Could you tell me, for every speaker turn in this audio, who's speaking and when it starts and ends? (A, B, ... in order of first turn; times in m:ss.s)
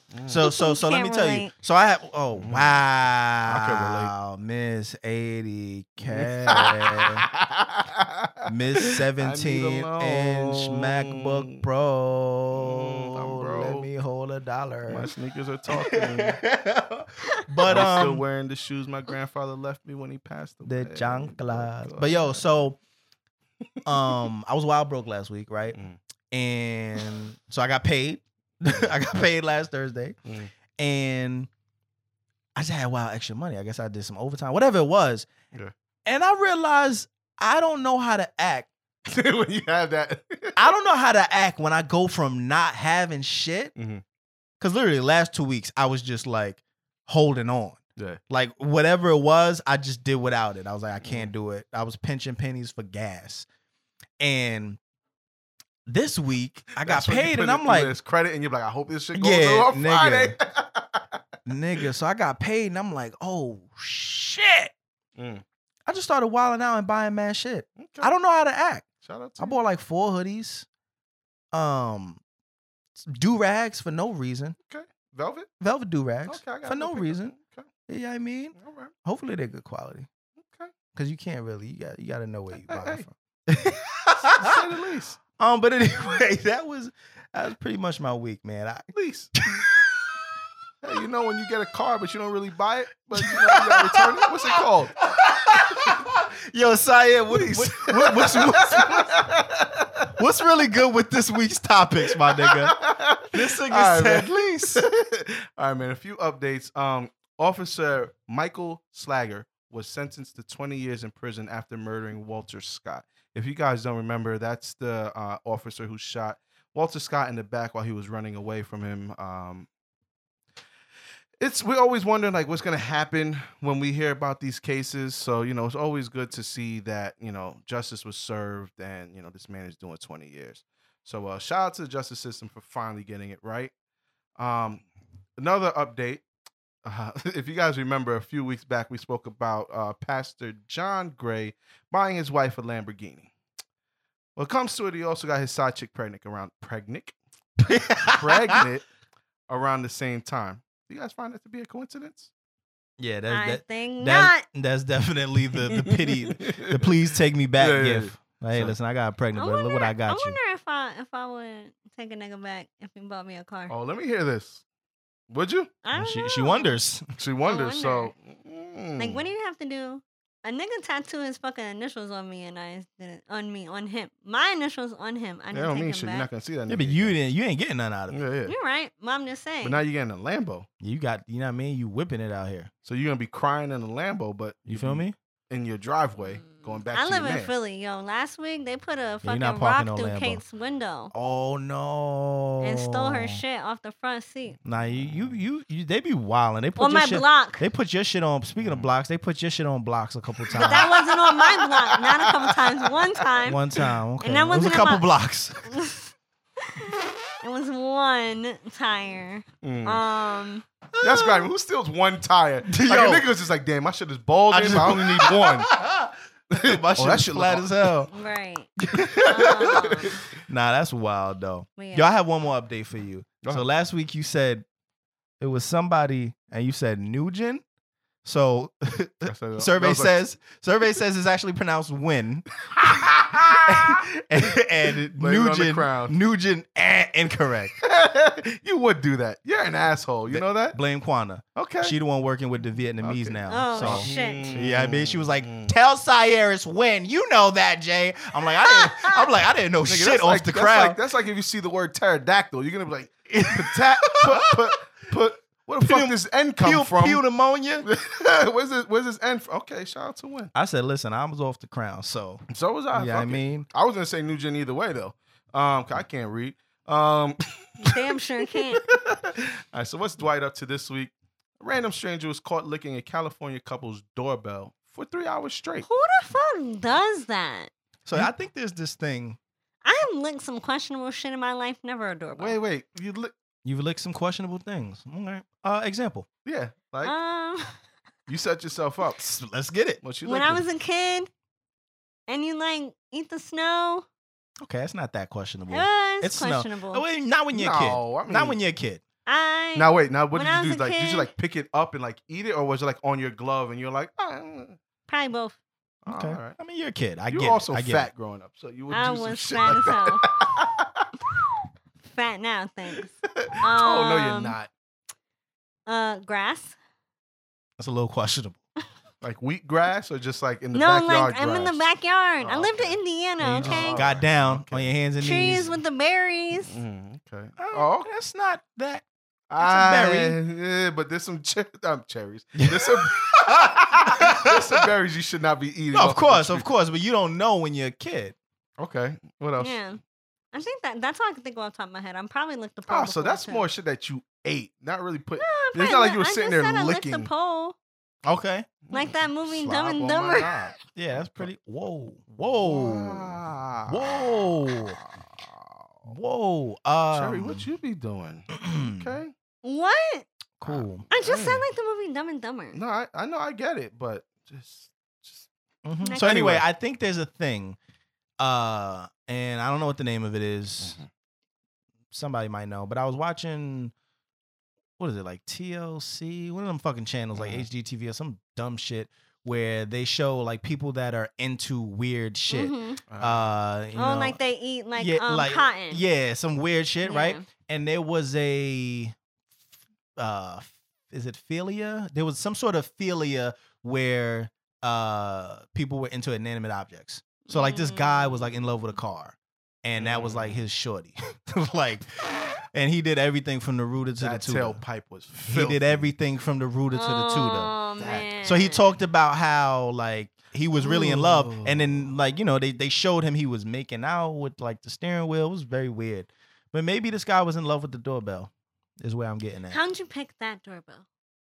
0:00.1-0:00.4 A
0:00.3-0:07.2 B
0:00.4-0:01.5 C
0:02.4-0:02.8 A
0:03.5-0:04.1 A
0:06.1-0:11.6 A
0:08.5-0:15.1 B
0:12.6-0:13.9 A
0:14.9-0:16.4 A
0:15.7-0:18.2 B
0:17.6-0:22.4 A
0:20.6-0:22.8 B
0:23.8-0:25.8 B
0:23.9-0:24.1 A
0:26.3-0:30.2 B
0:30.3-0:30.5 A
0:30.8-0:31.5 B
0:32.6-0:35.3 B
0:36.1-0:38.7 B
0:39.1-0:40.7 A
0:40.6-0:43.7 B
0:43.8-0:44.0 A
0:44.6-0:53.5 B
0:51.0-0:51.3 A
0:54.2-0:54.8 B
0:55.9-0:58.0 B
0:56.8-1:01.0 A
0:59.1-1:00.4 B
1:01.5-1:04.7 B
1:05.2-1:05.4 A
1:05.9-1:08.9 B
1:07.8-1:08.1 A
1:09.0-1:09.6 A
1:09.4-1:10.7 B
1:11.5-1:12.2 B
1:13.0-1:14.6 B
1:14.7-1:15.5 A
1:15.6-1:17.3 B
1:16.3-1:17.7 A
1:17.9-1:20.1 B
1:18.6-1:18.9 A
1:20.4-1:20.7 A
1:20.9-1:24.6 B
1:22.6-1:23.0 A
1:24.2-1:25.2 A
1:25.4-1:28.9 B
1:28.9-1:29.4 A
1:29.4-1:30.1 B
1:30.8-1:35.0 A
1:33.2-1:39.3 B
1:37.3-1:40.1 A
1:40.1-1:42.8 B
1:42.3-1:59.7 A
1:43.3-1:44.8 B
2:01.4-2:13.7 A
2:14.4-2:14.8 A
2:15.4-2:16.2 A
2:16.8-2:23.3 A
2:24.4-2:27.2 A
2:27.6-2:28.6 B
2:28.1-2:28.9 A
2:29.5-2:32.3 A
2:33.0-2:40.4 B
2:33.3-2:34.4 C
2:35.8-2:37.0 A
2:37.6-2:38.8 A
2:39.4-2:43.7 C
2:43.7-2:44.6 A
2:45.3-2:45.7 A
2:45.8-2:46.8 C
2:45.9-2:47.1 B
2:47.2-2:49.3 A
2:47.5-2:48.1 C
2:49.0-2:56.3 C
2:55.5-2:57.2 A
2:56.7-2:58.2 B
2:58.1-2:58.5 A
2:58.5-2:59.8 C
2:59.6-3:00.7 A
3:00.8-3:02.7 B
3:02.8-3:07.5 A
3:04.7-3:05.2 B
3:06.5-3:11.1 C
3:09.2-3:10.4 B
3:11.1-3:13.4 B
3:12.6-3:14.6 C
3:14.7-3:20.9 B
3:14.8-3:15.4 A
3:16.8-3:17.6 C
3:18.6-3:18.9 A
3:20.5-3:22.6 A
3:20.6-3:23.6 C
3:23.4-3:25.7 B
3:24.2-3:25.1 C
3:25.7-3:26.1 C
3:27.4-3:30.6 C
3:29.6-3:30.0 A
3:31.0-3:31.5 B
3:31.0-3:35.7 A
3:32.7-3:33.3 B
3:34.5-3:38.1 B
3:36.5-3:38.0 A
3:38.1-3:38.7 C
3:38.8-3:44.6 B
3:39.0-3:40.2 A
3:39.2-3:40.1 C
3:41.8-3:42.1 C
3:45.4-3:47.6 B
3:48.2-3:52.5 B
3:49.2-3:50.2 A
3:52.8-3:54.0 A
3:53.7-3:57.8 B
3:54.8-3:56.2 A
3:57.8-4:00.8 A
4:00.3-4:11.0 B
4:01.6-4:02.0 A
4:03.0-4:05.7 A
4:03.5-4:04.6 C
4:09.8-4:17.2 A
4:13.3-4:14.7 B
4:15.8-4:17.9 B
4:17.8-4:20.5 A
4:20.5-4:23.7 B
4:22.5-4:27.9 A
4:27.8-4:28.8 C
4:28.8-4:35.9 A
4:35.8-4:37.7 C
4:38.1-4:39.4 B
4:39.8-4:42.6 C
4:42.4-4:43.3 A
4:43.6-4:46.3 B
4:46.4-4:47.1 A
4:47.0-4:47.8 C
4:48.3-4:49.3 A
4:49.2-4:50.0 B
4:50.0-4:50.6 A
4:50.2-4:51.3 C
4:52.3-4:54.0 C
4:54.6-4:59.0 B
4:55.7-4:57.0 C
4:57.5-4:58.6 A
4:59.3-5:01.3 C
4:59.8-5:04.8 A
5:05.1-5:05.6 C
5:06.0-5:06.6 A
5:06.1-5:08.1 B
5:07.3-5:11.1 A
5:08.9-5:10.3 C
5:12.0-5:14.6 C
5:13.2-5:14.7 A
5:15.9-5:16.8 C
5:17.8-5:18.6 B
5:19.2-5:21.8 A
5:20.7-5:24.0 C
5:22.4-5:23.0 A
5:23.4-5:25.8 B
5:23.6-5:24.9 A
5:25.2-5:26.8 C
5:26.7-5:28.1 A
5:27.6-5:29.0 B
5:29.5-5:36.7 A
5:29.6-5:30.4 B
5:32.6-5:34.9 B
5:35.9-5:38.4 B
5:38.8-5:39.8 A
5:39.6-5:40.0 C
5:40.5-5:43.7 C
5:42.9-5:47.3 A
5:45.4-5:47.8 C
5:48.2-5:48.7 B
5:48.9-5:51.5 A
5:48.9-5:50.5 C
5:50.4-5:53.4 B
5:52.6-5:56.1 A
5:53.9-5:55.0 B
5:56.1-5:57.7 B
5:57.1-5:59.3 A
5:58.5-5:59.1 B
5:59.6-6:00.3 C
6:00.6-6:01.1 B
6:00.7-6:01.6 A
6:01.1-6:02.8 C
6:02.7-6:05.5 A
6:05.8-6:07.8 B
6:06.0-6:06.4 C
6:06.2-6:06.7 A
6:08.4-6:11.0 B
6:10.8-6:11.1 A
6:12.1-6:13.9 B
6:15.0-6:24.4 B
6:17.3-6:17.7 A
6:22.5-6:23.0 C
6:23.1-6:23.6 A
6:24.0-6:26.0 C
6:25.0-6:29.2 B
6:27.0-6:27.4 C
6:30.2-6:44.8 B
6:37.5-6:38.5 C
6:40.0-6:40.6 A
6:44.2-6:46.1 A
6:45.4-6:59.8 B
6:46.9-6:48.9 C
6:48.0-6:48.3 A
6:50.8-6:52.1 A
6:59.7-7:01.0 C